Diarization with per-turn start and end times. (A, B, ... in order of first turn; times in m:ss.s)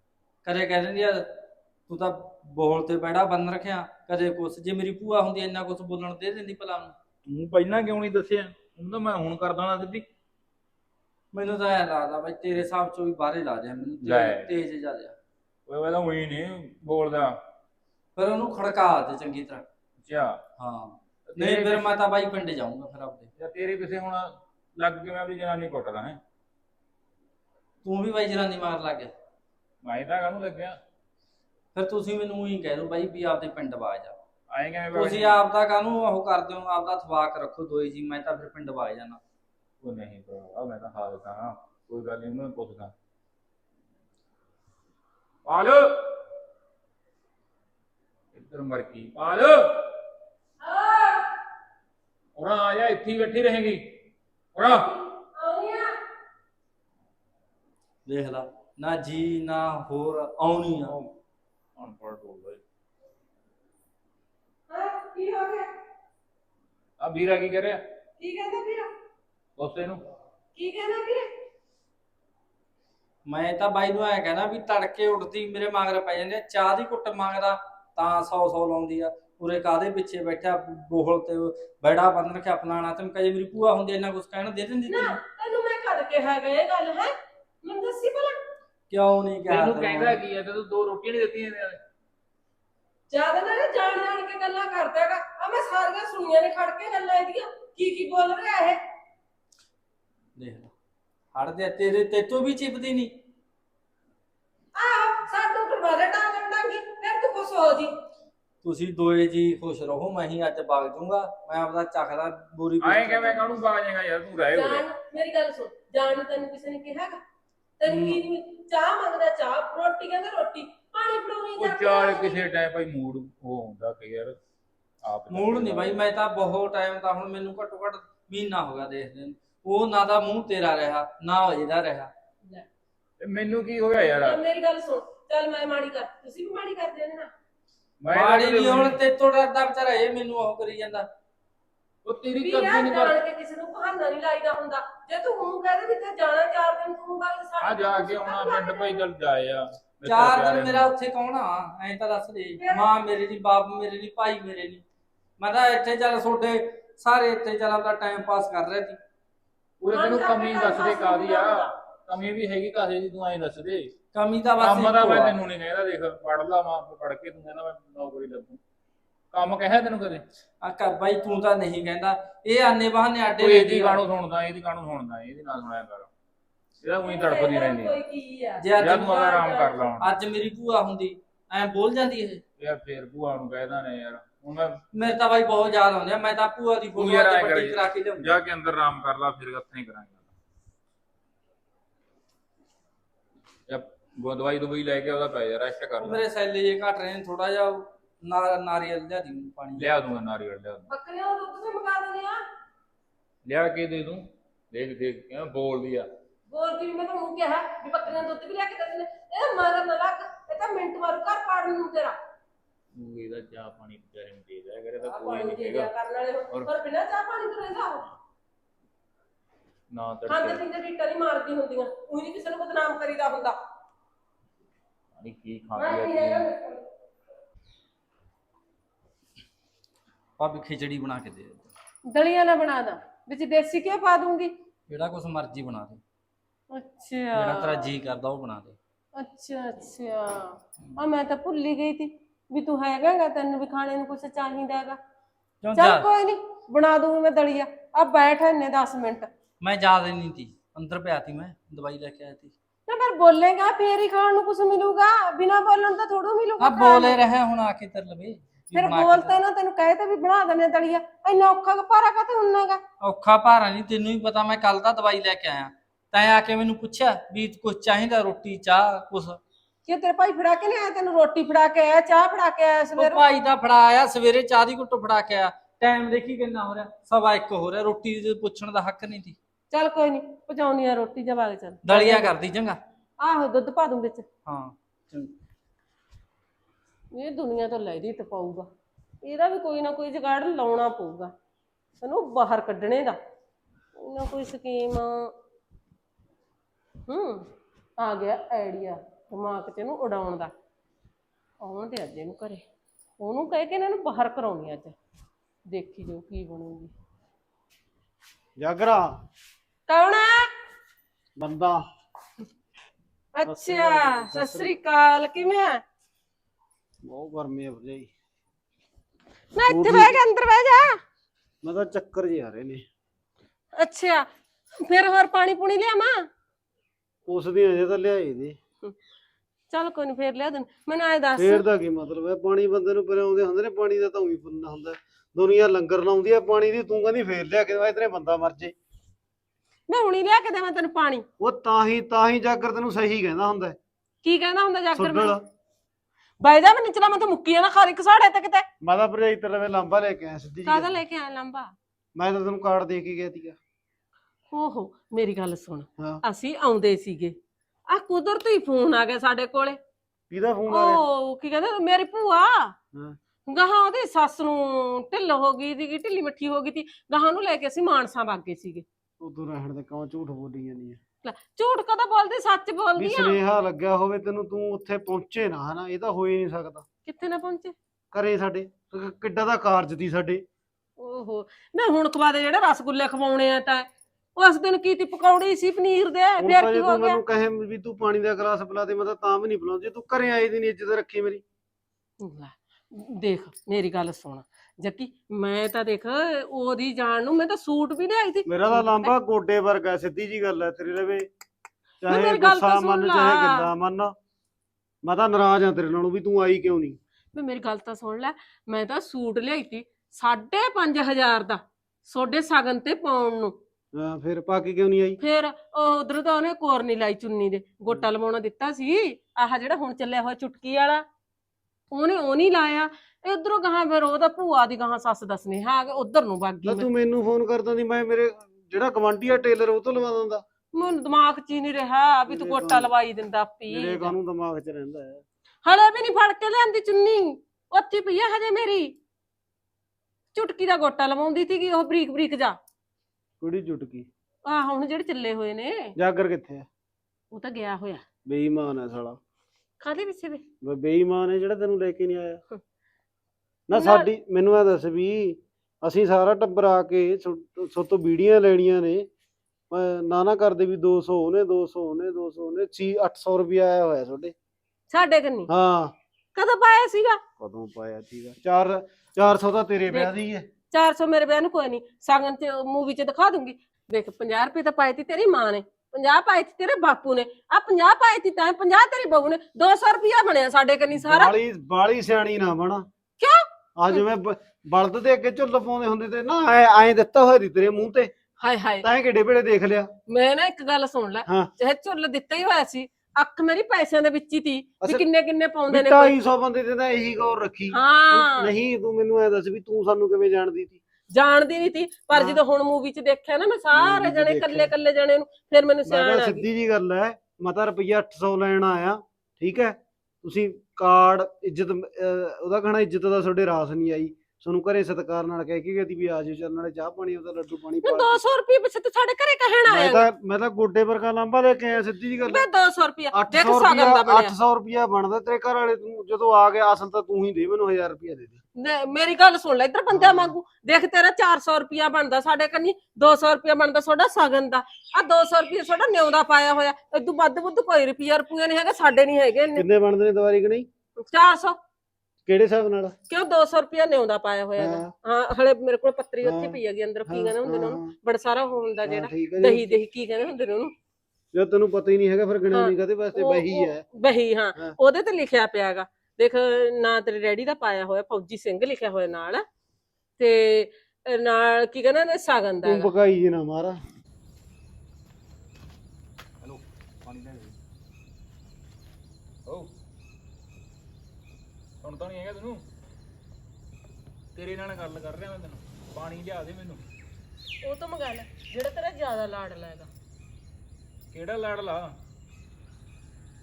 0:00.4-0:07.0 A
0:07.2-0:10.0 B
0:11.3-0:15.2 A
0:14.0-0:14.5 B
0:15.7-0:17.4 B
0:18.2-0:19.6 A
0:20.0-0:20.4 B
0:20.6-0:23.3 A
0:21.3-0:22.0 B
0:23.4-0:26.2 B
0:27.8-0:29.1 A
0:29.8-0:30.8 B
0:31.7-0:34.2 A
0:34.5-0:35.4 B
0:34.9-0:39.2 A
0:39.8-0:42.9 B
0:45.4-0:46.2 B
0:48.3-0:50.0 B
0:50.6-0:51.3 C
0:52.4-0:53.8 B
0:54.5-0:54.9 B
0:54.6-0:55.9 C
0:58.0-1:01.0 A
1:00.8-1:01.1 B
1:01.8-1:02.6 B
1:04.7-1:05.7 C
1:07.0-1:07.8 B
1:08.2-1:08.9 C
1:09.6-1:10.0 B
1:10.6-1:11.2 C
1:13.3-1:25.2 A
1:24.9-1:28.4 C
1:28.9-1:30.2 A
1:29.5-1:31.8 B
1:33.1-1:38.8 C
1:40.4-1:40.7 A
1:41.3-1:43.1 A
1:44.8-1:47.9 C
1:48.6-1:53.6 A
1:52.8-1:54.9 B
1:54.5-1:57.2 C
1:57.8-2:02.4 C
1:57.8-1:58.2 A
2:01.6-2:04.4 B
2:05.0-2:06.0 B
2:05.3-2:12.1 A
2:13.2-2:14.4 B
2:14.1-2:17.3 C
2:18.0-2:19.0 B
2:18.1-2:21.1 A
2:22.0-2:23.2 B
2:22.4-2:29.0 C
2:27.6-2:30.9 B
2:30.0-2:34.8 A
2:32.6-2:32.9 C
2:35.4-2:39.0 A
2:39.8-2:43.9 B
2:39.9-2:41.7 C
2:44.1-2:45.4 A
2:44.6-2:48.6 B
2:49.3-2:50.2 B
2:50.6-2:54.0 A
2:53.4-2:56.1 B
2:56.8-2:58.0 B
2:57.0-2:59.9 C
2:58.6-2:59.2 A
2:58.8-3:00.1 B
3:00.0-3:02.4 A
3:02.6-3:04.9 B
3:04.9-3:08.3 A
3:07.0-3:10.2 B
3:13.7-3:16.2 B
3:16.0-3:20.0 A
3:19.8-3:20.8 B
3:20.9-3:22.4 C
3:23.4-3:26.1 B
3:26.5-3:32.2 C
3:32.9-3:35.9 B
3:35.0-3:38.1 C
3:39.9-3:40.6 B
3:40.3-3:43.6 C
3:45.2-3:46.5 B
3:45.7-3:46.8 C
3:50.4-3:51.7 A
3:52.1-3:54.5 C
3:54.9-3:56.0 A
3:56.7-3:57.9 C
3:57.3-3:58.8 A
3:59.2-4:05.0 C
4:05.6-4:06.1 A
4:05.7-4:09.3 C
4:09.6-4:12.5 A
4:12.9-4:17.2 C
4:16.6-4:19.4 A
4:18.7-4:22.8 C
4:23.0-4:29.4 A
4:29.8-4:33.2 C
4:32.9-4:39.4 A
4:39.7-4:42.3 C
4:41.8-4:42.8 A
4:43.2-4:44.2 C
4:44.4-4:45.3 A
4:47.1-4:48.7 C
4:49.2-4:51.3 C
4:52.0-4:53.2 C
4:53.9-4:55.3 C
4:57.1-5:00.5 C
5:01.6-5:02.6 C
5:03.2-5:04.9 C
5:05.7-5:06.9 C
5:08.6-5:09.1 D
5:09.9-5:10.5 C
5:11.4-5:11.8 D
5:13.3-5:15.8 C
5:13.4-5:14.7 D
5:17.0-5:18.1 D
5:19.5-5:21.0 C
5:19.7-5:20.2 D
5:21.6-5:22.8 D
5:23.8-5:24.3 C
5:24.8-5:26.3 C
5:27.2-5:28.6 D
5:29.7-5:31.6 C
5:31.4-5:38.7 D
5:39.9-5:41.2 C
5:41.4-5:43.8 D
5:44.2-5:45.4 C
5:44.9-5:45.4 D
5:46.4-5:48.7 C
5:48.8-5:51.0 D
5:50.6-5:51.7 C
5:52.1-5:53.6 D
5:54.5-5:57.4 C
5:57.9-5:59.8 C
6:00.3-6:01.0 D
6:00.7-6:02.7 C
6:03.5-6:08.8 C
6:09.2-6:11.0 D
6:11.2-6:13.4 C
6:13.0-6:16.8 D
6:17.0-6:17.7 C
6:18.1-6:20.4 D
6:21.0-6:27.2 C
6:26.4-6:31.4 D
6:32.2-6:39.1 C
6:38.5-6:41.3 D
6:42.0-6:44.1 D
6:42.0-6:43.7 C
6:45.0-6:47.0 D
6:47.3-6:53.5 C
6:53.9-6:55.2 D
6:55.2-7:01.0 C
7:01.9-7:06.9 C
7:06.6-7:10.4 D
7:10.7-7:14.1 C
7:12.3-7:12.9 D
7:13.7-7:15.2 D
7:15.6-7:18.9 C
7:20.3-7:22.6 C
7:23.4-7:24.1 D
7:24.4-7:25.9 C
7:26.0-7:26.7 D
7:27.3-7:28.0 C
7:28.2-7:29.2 D
7:29.8-7:30.4 C
7:30.6-7:32.4 D
7:33.7-7:39.1 D
7:33.7-7:34.1 C
7:39.7-7:44.3 D
7:44.9-7:45.5 C
7:45.5-7:45.9 D
7:46.4-7:47.2 C
7:47.4-7:50.5 D
7:50.7-8:01.3 C
8:00.9-8:02.9 D
8:03.2-8:04.0 C
8:03.8-8:08.1 D
8:08.4-8:08.9 C
8:08.8-8:09.9 D
8:10.1-8:16.1 C
8:15.7-8:20.8 D
8:17.7-8:18.5 C
8:21.1-8:26.4 C
8:22.1-8:22.4 D
8:23.7-8:24.7 D
8:25.9-8:38.2 D
8:37.8-8:40.1 C
8:39.7-8:42.4 D
8:42.2-8:44.3 C
8:43.1-8:48.4 D
8:48.6-8:59.6 C
8:49.9-8:50.3 D
8:59.5-9:00.7 D
9:01.0-9:01.6 C
9:02.2-9:02.9 D
9:03.1-9:10.7 C
9:04.6-9:04.9 D
9:06.2-9:07.9 D
9:08.8-9:09.8 D
9:11.3-9:13.8 D
9:12.5-9:19.4 C
9:20.2-9:22.9 C
9:22.6-9:23.8 D
9:26.4-9:27.6 B
9:31.8-9:32.6 B
9:34.3-9:36.8 B
9:37.6-9:39.9 C
9:41.1-9:42.0 B